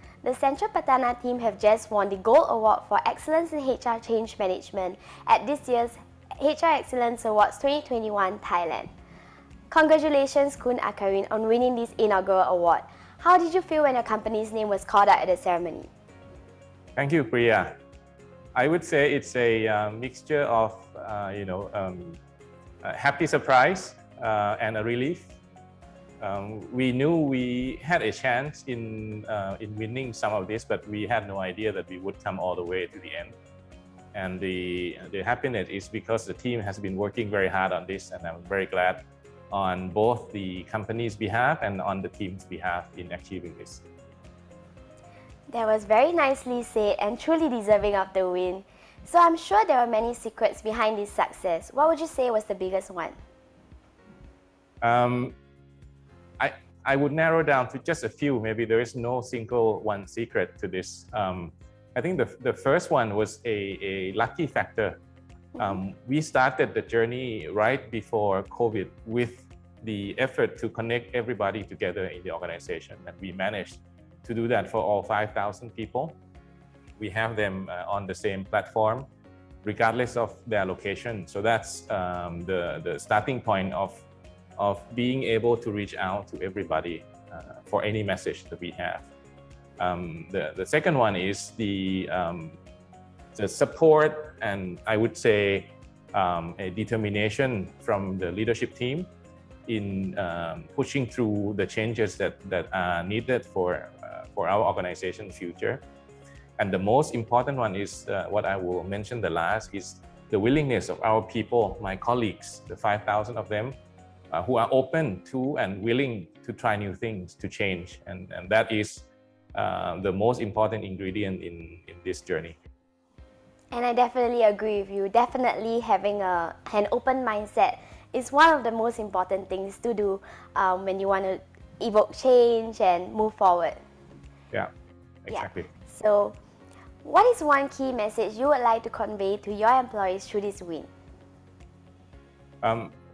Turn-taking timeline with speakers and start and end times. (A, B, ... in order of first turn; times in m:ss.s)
0:00.2-0:08.9 A
0:09.7-0:15.9 A
0:17.0-0:17.7 B
0:18.5-0:22.2 B
0:22.8-0:25.3 B
0:26.2-0:33.4 B
0:34.1-0:43.8 B
0:45.5-0:53.2 A
0:54.8-0:55.4 B
0:56.4-1:05.0 B
1:05.6-1:16.2 B
1:17.0-1:19.1 B
1:19.6-1:24.0 B
1:24.6-1:29.1 B
1:29.8-1:32.6 B
1:33.3-1:39.1 B
1:39.7-1:45.8 B
1:46.6-1:53.8 B
1:54.3-2:02.6 B
2:03.7-2:13.8 A
2:15.2-2:15.7 B
2:15.3-2:16.4 A
2:17.0-2:20.9 A
2:22.6-2:22.9 B